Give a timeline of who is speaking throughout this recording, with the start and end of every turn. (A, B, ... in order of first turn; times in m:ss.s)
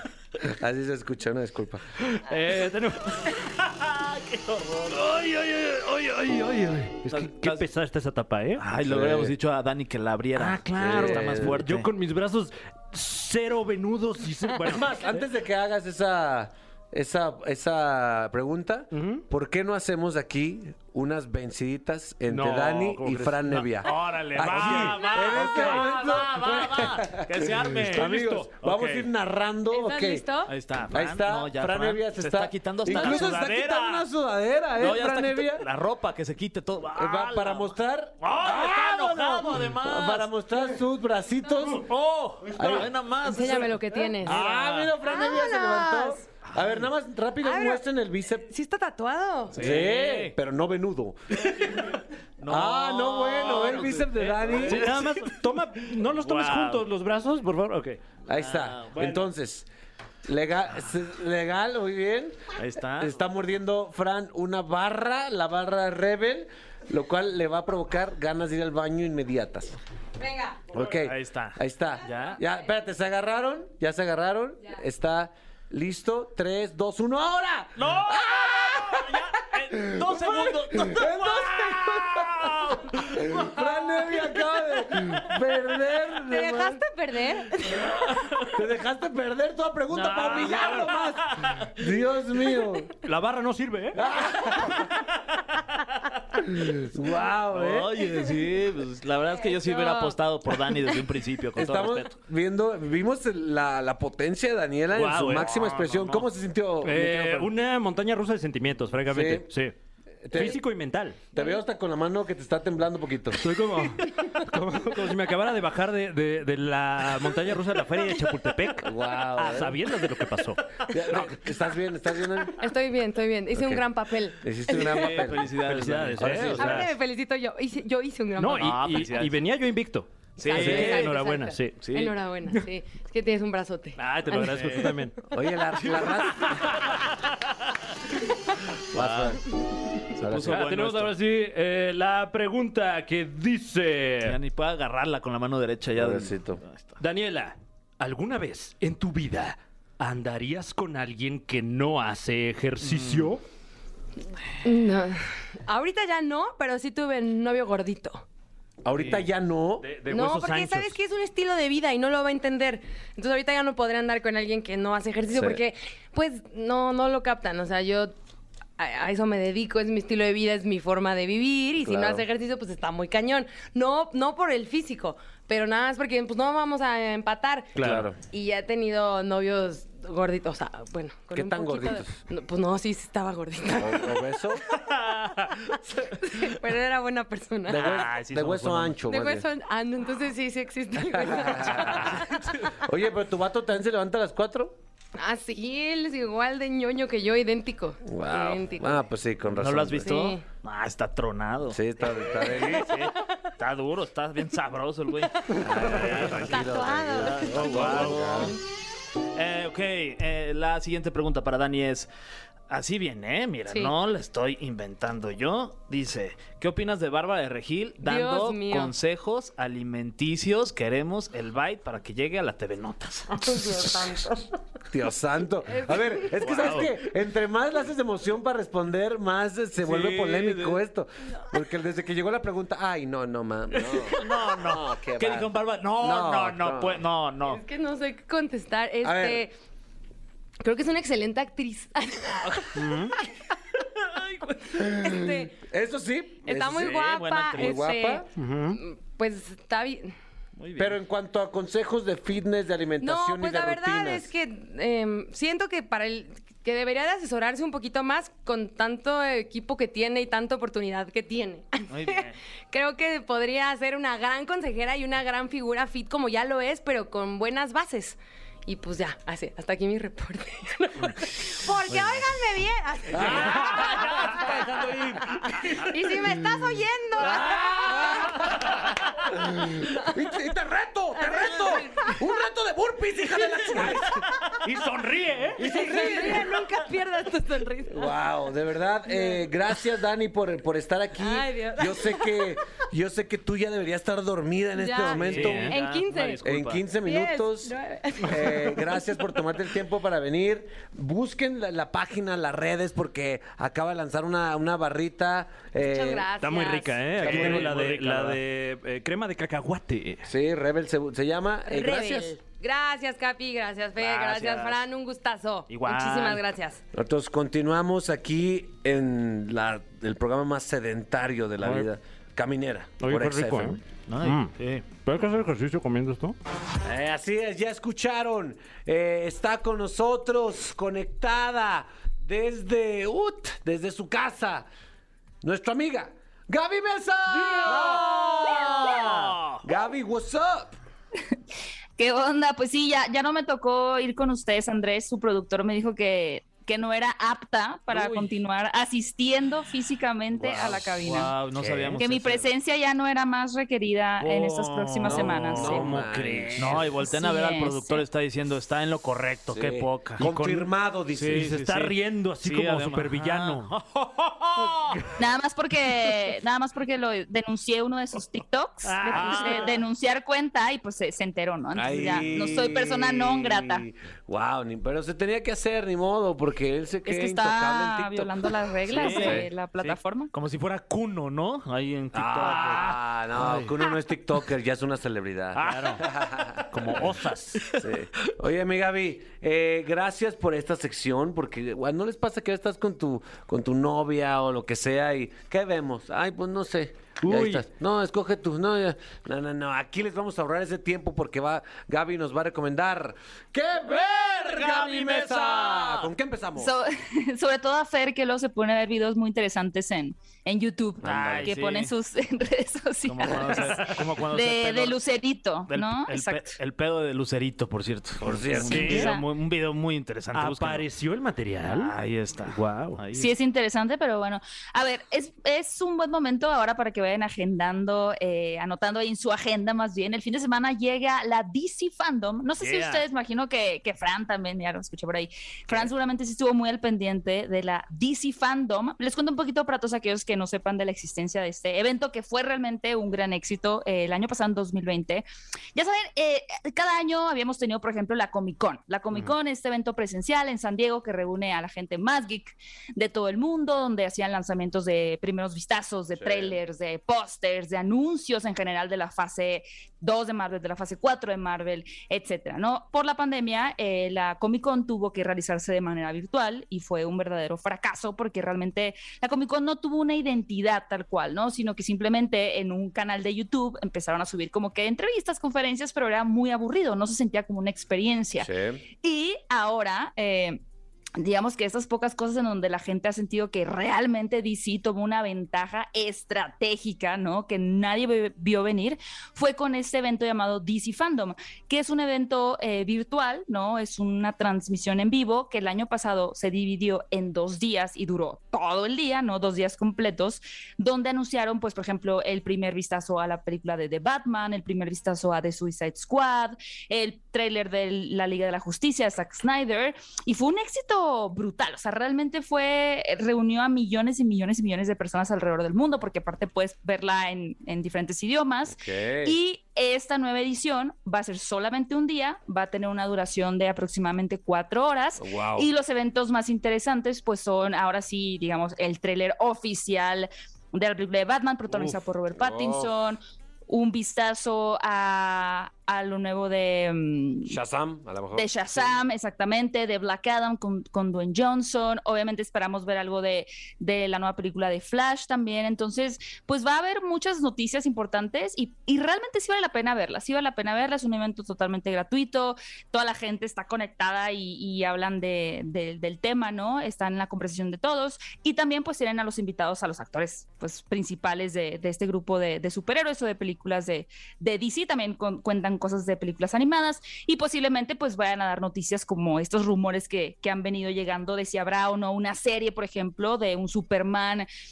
0:00.4-0:01.8 A
0:02.1-0:03.5 B
0:03.7-0:04.9 C
0:04.9-0:08.6 B
0:07.1-0:07.6 C
0:08.6-0:11.9 C
0:08.9-0:09.3 A
0:10.4-0:15.0 B
0:10.8-0:11.6 A
0:14.6-0:30.3 A
0:18.9-0:19.2 B
0:22.3-0:25.9 B
0:23.7-0:28.8 C
0:27.9-0:29.0 B
0:29.7-0:30.5 D
0:30.5-0:34.1 C
0:30.9-0:35.7 A
0:34.8-0:40.3 C
0:36.9-0:41.9 A
0:41.7-0:44.9 C
0:42.6-0:42.9 A
0:43.2-0:44.4 D
0:44.2-0:48.5 A
0:45.0-0:46.2 D
0:46.5-0:46.8 C
0:47.4-0:47.8 D
0:48.4-0:49.6 D
0:49.5-0:50.4 C
0:49.5-0:51.5 A
0:51.5-0:51.8 C
0:52.4-0:56.8 C
0:52.5-0:55.0 A
0:54.6-0:58.1 B
0:58.3-0:59.7 A
0:58.3-0:59.1 C
0:59.0-0:59.2 B
1:00.2-1:02.4 A
1:02.6-1:03.2 C
1:03.0-1:09.8 A
1:10.2-1:10.6 D
1:10.7-1:19.1 A
1:10.8-1:12.4 C
1:17.8-1:23.4 C
1:19.8-1:22.4 A
1:23.1-1:26.8 A
1:26.2-1:27.8 D
1:28.5-1:32.9 A
1:29.9-1:31.7 C
1:33.0-1:34.0 B
1:33.9-1:34.9 A
1:36.6-1:38.0 A
1:37.5-1:42.1 C
1:39.4-1:40.2 D
1:41.6-1:47.5 A
1:44.9-1:45.8 B
1:45.4-1:46.2 C
1:46.8-1:49.7 B
1:49.1-1:49.5 A
1:50.2-1:50.6 A
1:50.3-1:51.3 B
1:51.3-1:53.4 A
1:53.4-2:00.9 B
1:58.8-1:59.8 A
2:00.9-2:02.6 A
2:02.6-2:05.2 D
2:03.5-2:05.6 A
2:04.7-2:06.8 C
2:05.6-2:06.9 B
2:06.2-2:06.8 A
2:06.6-2:08.9 D
2:08.4-2:11.8 B
2:08.6-2:09.4 C
2:10.4-2:11.2 C
2:10.5-2:14.7 D
2:11.8-2:12.1 C
2:14.0-2:15.2 B
2:14.3-2:14.9 C
2:15.3-2:16.8 A
2:18.9-2:19.4 A
2:18.9-2:19.4 C
2:20.2-2:21.2 C
2:20.2-2:20.7 A
2:20.4-2:24.4 B
2:24.2-2:27.0 C
2:26.0-2:26.6 A
2:27.0-2:33.4 B
2:32.8-2:33.3 C
2:34.6-2:38.2 D
2:38.8-2:39.9 A
2:39.8-2:41.0 B
2:40.1-2:48.1 D
2:45.3-2:45.6 A
2:48.8-3:04.2 D
2:51.8-2:52.2 A
2:57.8-2:58.2 A
2:57.8-2:58.0 C
2:57.8-2:58.1 B
3:01.3-3:02.2 A
3:03.8-3:04.6 A
3:05.2-3:05.6 C
3:05.9-3:08.1 D
3:07.7-3:09.5 A
3:07.7-3:09.0 C
3:09.1-3:12.6 D
3:11.0-3:14.8 A
3:15.2-3:19.0 D
3:18.0-3:20.1 A
3:19.5-3:28.6 C
3:20.0-3:20.4 D
3:21.7-3:23.0 A
3:25.5-3:28.2 D
3:25.6-3:28.6 A
3:29.4-3:32.1 C
3:32.7-3:43.6 C
3:38.0-3:38.9 D
3:43.4-3:44.4 D
3:44.9-3:57.0 A
3:45.7-3:46.2 D
3:46.4-3:46.9 C
3:49.8-3:50.8 C
3:54.0-3:57.6 C
3:57.4-3:59.5 D
3:59.0-3:59.4 A
4:00.6-4:02.9 D
4:02.8-4:03.2 B
4:04.1-4:04.5 C
4:04.7-4:05.6 D
4:05.0-4:07.0 A
4:06.4-4:10.2 D
4:06.7-4:07.9 C
4:07.5-4:08.3 A
4:08.4-4:08.8 B
4:10.6-4:11.0 C
4:10.8-4:14.3 A
4:13.0-4:34.5 D
4:21.9-4:22.4 C
4:33.1-4:35.4 A
4:33.4-4:34.1 C
4:35.7-4:38.1 D
4:37.2-4:38.8 A
4:39.3-4:44.3 A
4:41.2-4:42.2 D
4:44.6-4:45.6 B
4:45.6-4:46.6 A
4:45.6-4:48.2 D
4:47.9-4:55.8 A
4:49.1-4:49.5 D
4:51.2-4:52.6 D
4:54.8-4:56.4 D
4:55.1-4:56.8 C
4:56.4-5:06.3 A
4:57.0-4:59.4 D
5:05.8-5:07.0 D
5:06.4-5:10.3 B
5:07.2-5:08.4 C
5:07.2-5:07.8 A
5:10.2-5:12.4 A
5:11.7-5:16.8 D
5:14.0-5:14.8 C
5:15.7-5:16.4 C
5:16.9-5:23.8 A
5:21.6-5:21.9 B
5:23.0-5:26.4 B
5:24.1-5:24.9 C
5:26.8-5:34.7 A
5:35.4-5:40.8 A
5:37.3-5:39.6 C
5:42.0-5:51.3 E
5:47.9-5:48.2 C
5:50.4-5:52.5 C
5:51.6-5:52.0 A
5:52.0-5:55.9 E
5:54.2-6:00.3 C
5:55.0-5:56.9 A
5:55.6-5:56.8 B
5:57.0-5:58.0 E
5:59.5-6:01.5 A
6:00.2-6:00.7 B
6:01.2-6:05.1 C
6:01.2-6:03.7 B
6:04.9-6:05.2 B
6:05.2-6:13.9 E
6:08.9-6:09.7 B
6:09.0-6:09.8 C
6:11.8-6:19.5 A
6:17.1-6:20.3 E
6:18.9-6:23.0 C
6:22.1-6:26.7 A
6:22.4-6:23.8 B
6:25.6-6:26.1 B
6:25.6-6:26.0 C
6:26.7-6:27.7 B
6:27.8-6:46.7 A
6:37.2-6:37.6 B
6:44.0-6:46.1 C
6:46.6-6:56.6 E
6:51.0-6:51.6 A
6:51.0-6:51.9 C
6:53.1-6:55.0 C
6:55.7-7:00.9 C
6:58.2-6:59.1 A
6:58.7-6:59.1 B
6:58.7-6:59.3 E
7:00.3-7:01.9 B
7:01.6-7:03.3 C
7:02.4-7:03.0 B
7:03.1-8:00.6 E
7:12.6-7:13.0 C
7:36.2-7:36.6 A
7:58.4-7:58.8 A
8:01.2-8:57.6 E
8:38.7-8:39.4 A
8:45.2-8:45.7 A
8:51.7-8:52.9 A
8:57.5-8:59.0 A
8:58.3-9:34.5 E